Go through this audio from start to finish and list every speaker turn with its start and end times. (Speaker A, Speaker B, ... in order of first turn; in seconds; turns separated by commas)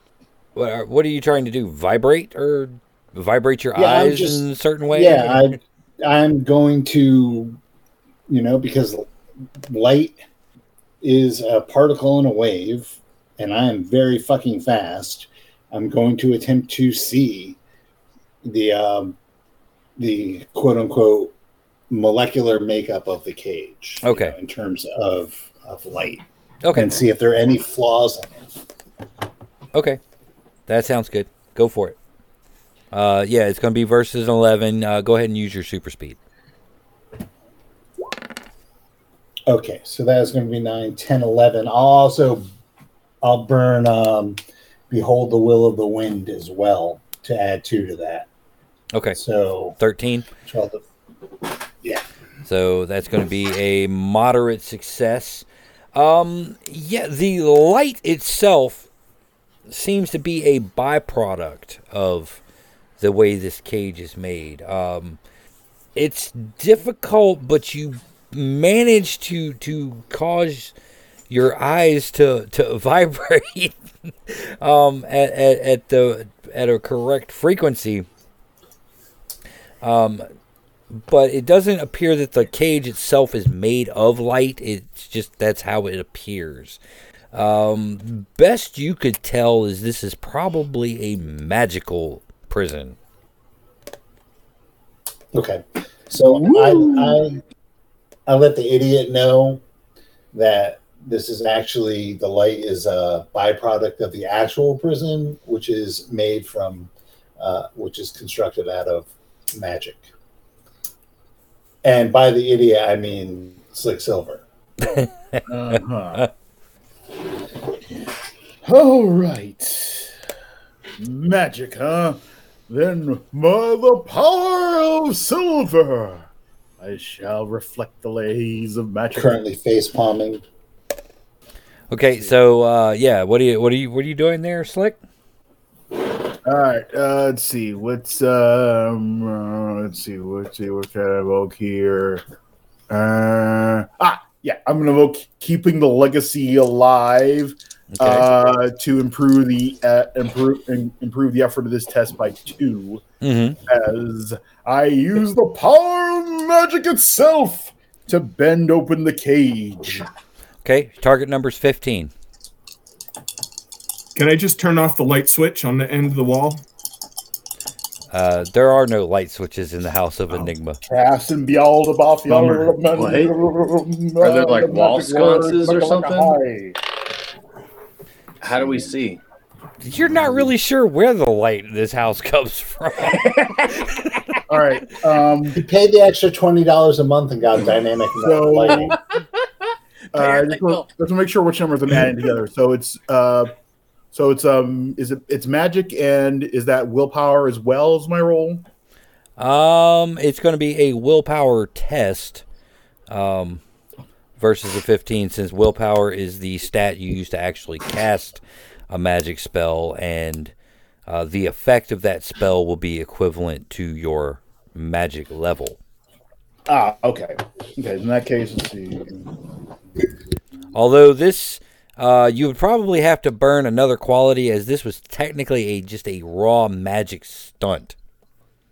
Speaker A: 0.6-5.6, Speaker B: 3.8-7.6, Speaker B: 8.3-9.1, Speaker B: 9.6-10.2, Speaker B: 11.0-17.6, Speaker B: 18.4-19.2, Speaker B: 20.0-21.3, Speaker B: 21.9-28.5, Speaker A: 24.0-24.4, Speaker A: 26.6-26.9, Speaker A: 29.7-30.0, Speaker A: 30.7-32.0, Speaker A: 32.9-36.2, Speaker B: 39.5-42.5, Speaker B: 43.2-48.3, Speaker A: 48.9-49.2, Speaker B: 49.1-49.8, Speaker A: 49.8-50.3, Speaker B: 50.4-50.8, Speaker A: 52.5-58.9, Speaker A: 59.7-62.4, Speaker A: 63.0-65.2, Speaker A: 66.0-70.7, Speaker A: 71.3-78.1, Speaker A: 79.8-80.3, Speaker A: 80.9-86.8, Speaker A: 87.3-93.0, Speaker B: 95.3-97.4, Speaker C: 96.2-97.2, Speaker B: 98.3-99.6, Speaker B: 100.3-110.0, Speaker B: 111.8-114.4, Speaker A: 114.9-115.4, Speaker C: 115.5-116.3, Speaker C: 118.6-120.1, Speaker C: 121.0-126.3, Speaker C: 126.8-129.4, Speaker B: 129.1-130.4, Speaker A: 131.9-135.0, Speaker C: 136.4-142.2, Speaker C: 142.9-153.0, Speaker A: 147.9-148.3, Speaker A: 153.2-153.6, Speaker C: 153.7-160.1, Speaker A: 160.6-162.1, Speaker D: 164.2-166.7, Speaker A: 168.1-170.8, Speaker C: 170.3-176.8, Speaker E: 172.3-173.3, Speaker E: 174.2-176.4, Speaker E: 178.4-179.2, Speaker A: 179.8-184.4, Speaker C: 184.5-185.6, Speaker B: 185.6-189.0, Speaker C: 188.2-189.0, Speaker C: 190.1-193.5, Speaker E: 190.2-190.8, Speaker C: 194.1-198.7, Speaker A: 199.4-202.4, Speaker A: 203.1-203.6, Speaker A: 204.4-210.5, Speaker A: 211.1-215.8, Speaker C: 216.7-219.3, Speaker A: 220.7-227.9